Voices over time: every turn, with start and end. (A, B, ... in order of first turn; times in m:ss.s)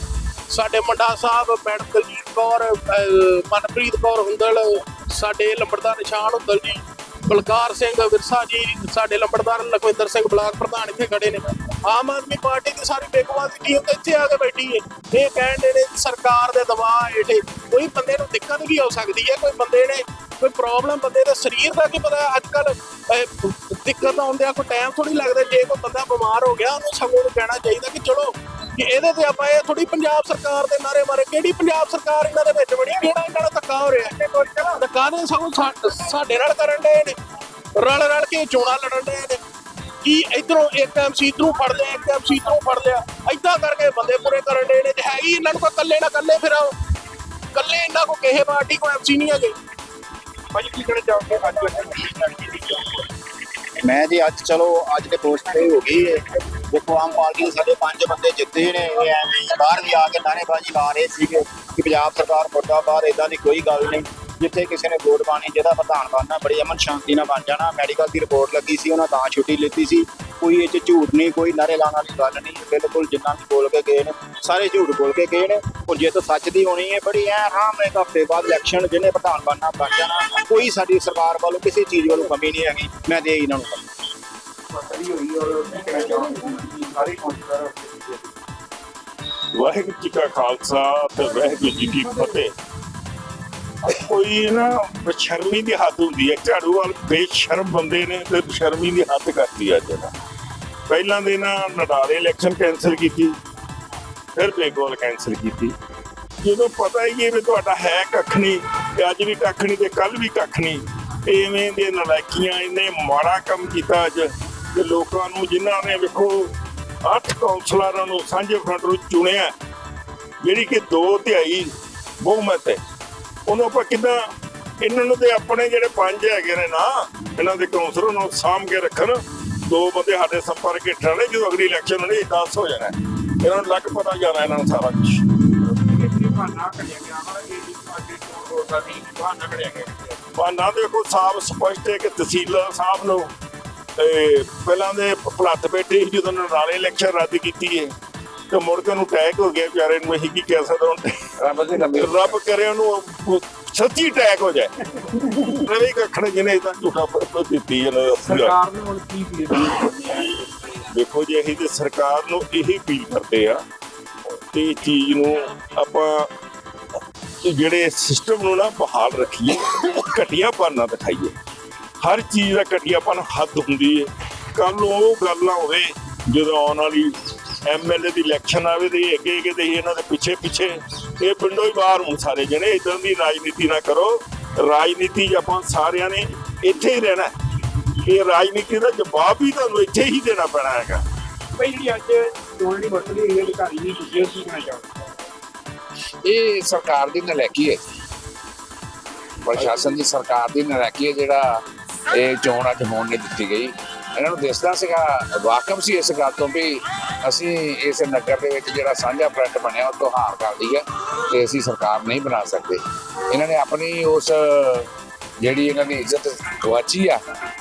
0:00.5-0:37.2 A
0:37.8-0:39.4 A
0:40.0-0:46.7 A
0:47.5-0:49.6 A
0:50.5-0:52.9 B
0:53.8-1:23.8 B
1:24.8-1:28.2 C
1:29.6-1:32.5 D
1:33.8-1:40.1 D
1:40.9-1:43.4 D
1:44.4-1:45.8 D
1:46.4-1:56.5 D
1:57.0-1:59.5 D
2:00.4-2:01.7 D
2:02.2-2:02.8 D
2:03.5-2:04.2 D
2:04.8-2:15.2 D
2:15.7-2:20.2 C
2:20.3-2:23.3 D
2:24.0-2:27.9 D
2:28.5-2:31.1 D
2:31.4-2:32.3 E
2:31.9-2:38.6 D
2:38.3-2:40.3 C
2:40.9-2:43.6 D
2:44.5-2:46.3 D
2:47.4-2:51.4 D
2:52.0-3:11.0 D
3:11.6-3:14.8 C
3:16.2-3:17.8 E
3:19.5-3:21.6 E
3:22.1-3:34.9 E
3:35.4-3:37.2 E